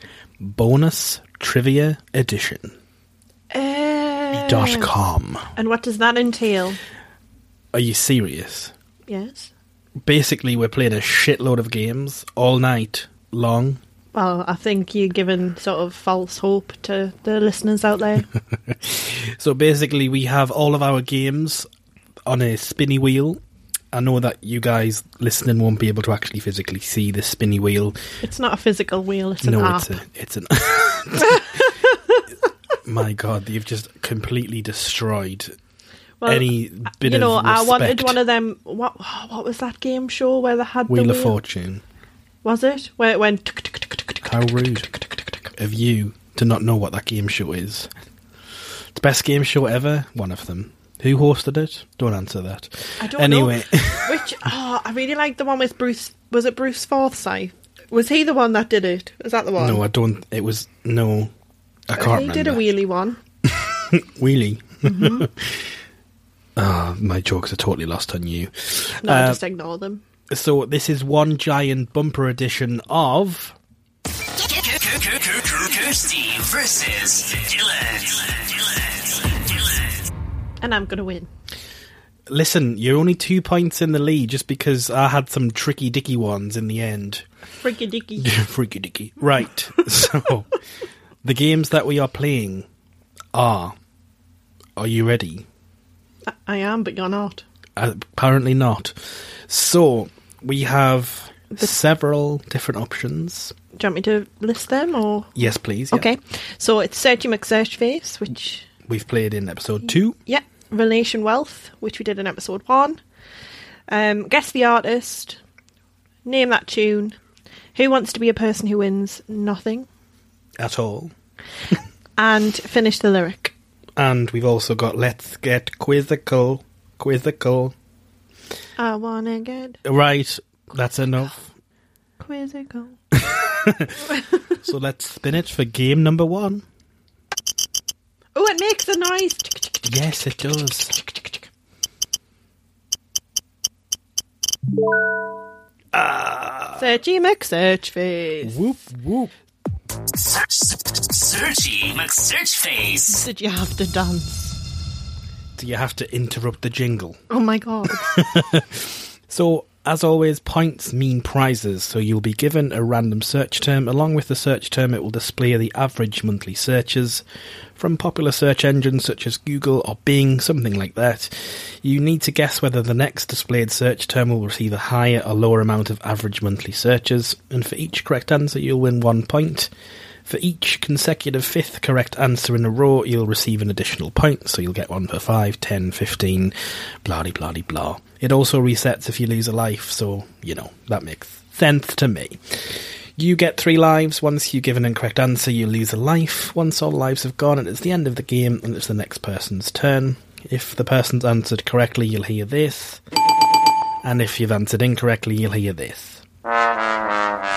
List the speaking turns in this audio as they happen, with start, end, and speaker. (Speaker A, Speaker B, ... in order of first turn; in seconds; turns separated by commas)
Speaker A: 0.4-2.7, Speaker B: 3.5-4.9, Speaker A: 4.3-5.5, Speaker B: 5.6-6.8, Speaker A: 7.7-8.7, Speaker B: 9.1-9.5, Speaker A: 10.0-13.8, Speaker B: 14.1-18.3, Speaker A: 18.5-21.7, Speaker A: 22.2-23.4, Speaker A: 23.9-28.0, Speaker B: 28.2-30.0, Speaker A: 29.4-31.6, Speaker B: 31.4-31.7, Speaker A: 32.8-35.5, Speaker B: 36.2-41.3, Speaker A: 36.2-38.2, Speaker A: 40.9-41.8, Speaker B: 42.4-44.4, Speaker A: 44.2-47.9, Speaker A: 48.9-54.3, Speaker B: 53.0-59.8, Speaker A: 59.6-61.3, Speaker A: 61.9-62.6, Speaker B: 61.9-63.2, Speaker A: 63.4-65.7, Speaker B: 64.8-65.3, Speaker A: 66.5-69.4, Speaker B: 69.0-70.0, Speaker A: 70.3-73.5, Speaker C: 74.4-80.0, Speaker B: 80.6-81.3, Speaker A: 82.3-87.3, Speaker B: 87.6-88.3, Speaker A: 88.2-90.5, Speaker A: 91.2-92.7, Speaker A: 93.3-93.7, Speaker A: 94.8-95.5, Speaker B: 96.2-97.4, Speaker A: 97.8-103.5, Speaker B: 103.7-105.3, Speaker A: 105.3-106.1, Speaker B: 105.9-108.7, Speaker A: 108.8-110.2, Speaker B: 110.2-113.0, Speaker B: 113.9-115.4, Speaker B: 116.2-117.2, Speaker B: 117.7-119.9, Speaker A: 120.6-121.1, Speaker B: 122.2-123.5, Speaker A: 124.0-127.7, Speaker B: 128.8-129.8, Speaker A: 129.8-131.5, Speaker B: 132.2-133.0, Speaker A: 133.2-136.6, Speaker B: 138.3-141.4, Speaker A: 139.8-140.9, Speaker A: 145.9-146.9, Speaker B: 146.8-148.6, Speaker A: 148.4-149.3, Speaker C: 150.1-153.2, Speaker B: 153.1-154.6, Speaker A: 155.6-157.2, Speaker B: 157.3-158.2, Speaker A: 158.0-167.2, Speaker A: 167.8-179.7, Speaker A: 180.2-203.0, Speaker A: 204.0-206.2